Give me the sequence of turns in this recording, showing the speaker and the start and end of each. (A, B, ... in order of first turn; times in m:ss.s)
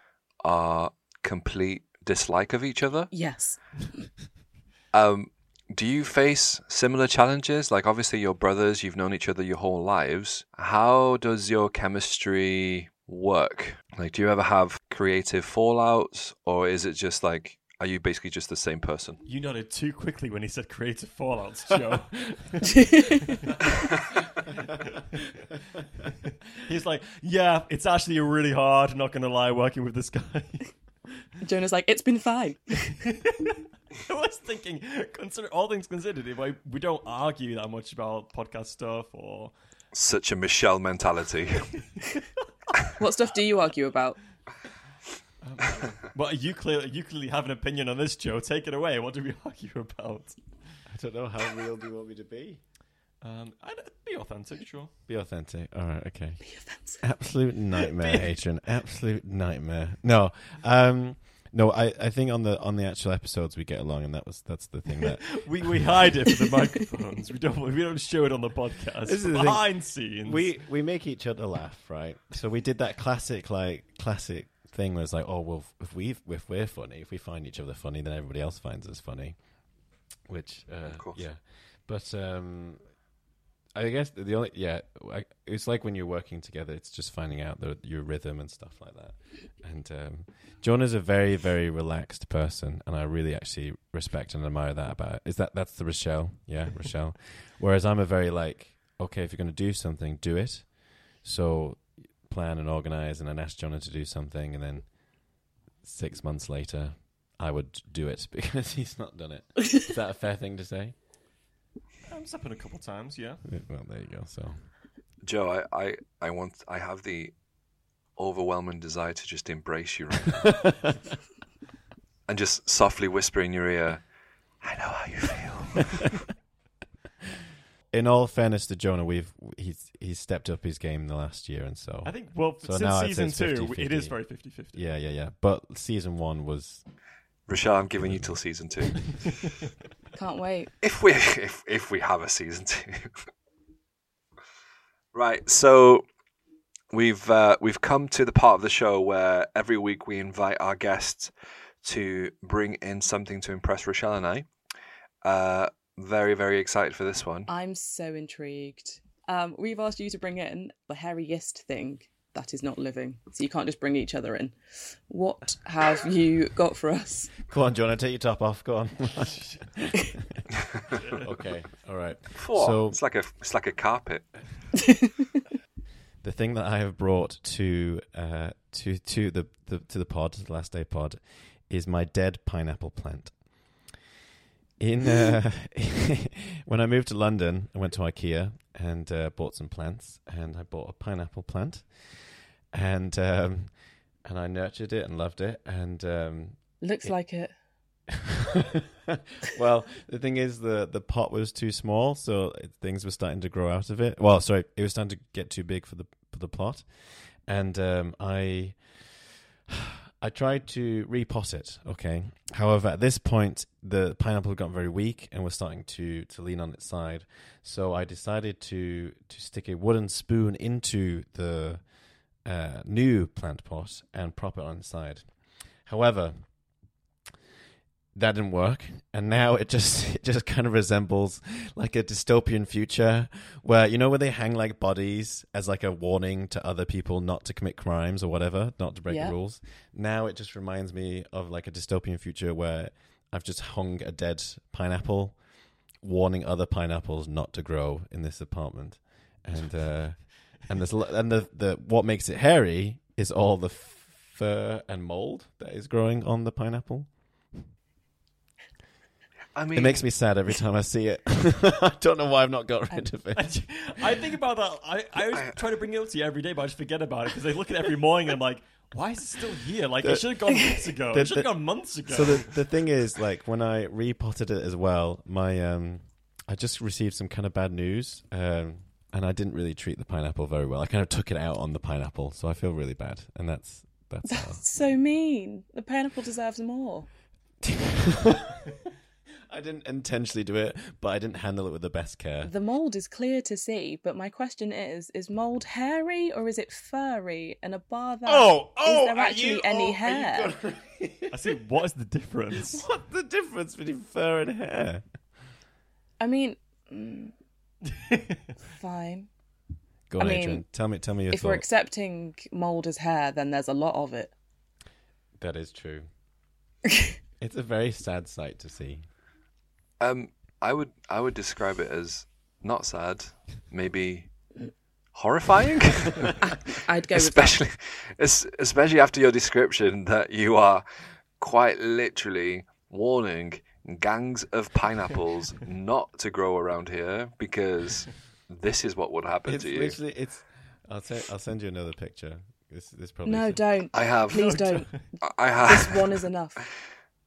0:00.4-0:03.1 A
0:03.1-0:04.0 B
0:04.9-0:19.2 A
0:19.2-0:23.6 C
0:22.7-0:23.2 B
0:24.9-0:25.3 C
0:26.5-0:30.7 C
0:31.4-0:32.9 B
0:33.1-0:39.5 C
0:39.9-0:41.7 A
0:43.0-0:44.2 B
0:45.4-0:50.4 C
0:50.9-0:52.6 D
0:53.2-0:54.9 C
0:55.1-1:05.9 D
0:56.4-0:57.0 B
1:05.0-1:10.5 C
1:09.0-1:19.4 D
1:20.3-1:22.8 D
1:20.8-1:21.2 A
1:23.7-1:50.9 D
1:52.1-1:53.4 C
1:53.4-1:54.6 D
1:55.2-1:57.3 A
1:58.2-2:00.6 A
2:02.3-2:04.0 A
2:04.6-2:06.1 A
2:07.9-2:14.2 D
2:12.0-2:14.9 C
2:14.7-2:16.8 D
2:17.5-2:19.4 A
2:18.0-2:18.4 D
2:20.1-2:20.7 B
2:20.8-2:23.1 A
2:25.1-2:26.0 A
2:26.9-2:34.5 A
2:35.2-2:37.5 A
2:37.5-2:44.6 B
2:45.1-2:47.3 B
2:47.5-2:50.4 D
2:50.9-2:51.3 C
2:51.2-2:53.0 D
2:52.3-2:54.3 A
2:56.2-3:03.4 D
3:04.8-3:13.7 D
3:14.2-3:17.1 D
3:16.8-3:17.5 B
3:18.1-3:41.8 D
3:42.4-3:45.3 D
3:45.8-3:46.5 D
3:48.1-4:05.4 D
3:59.1-3:59.4 B
4:06.0-4:17.7 D
4:19.5-4:20.0 A
4:19.7-4:23.5 D
4:23.3-4:32.6 C
4:25.3-4:25.6 A
4:30.0-4:30.4 D
4:31.1-4:44.6 D
4:44.2-4:47.1 B
4:47.6-4:48.6 D
4:49.5-4:52.5 D
4:52.4-5:00.5 B
4:58.2-5:01.5 D
5:01.3-5:02.8 C
5:02.6-5:05.0 D
5:06.2-5:07.3 B
5:08.0-5:08.4 C
5:08.7-5:09.3 B
5:10.1-5:11.6 D
5:10.2-5:10.6 B
5:11.3-5:14.3 B
5:15.4-5:16.0 D
5:17.4-5:19.0 D
5:20.0-5:24.3 A
5:25.1-5:26.4 A
5:26.5-5:27.6 B
5:27.1-5:30.8 A
5:31.4-5:40.0 A
5:39.4-5:43.6 D
5:43.2-5:46.6 B
5:43.9-5:44.5 A
5:44.3-5:45.0 C
5:45.2-5:46.1 A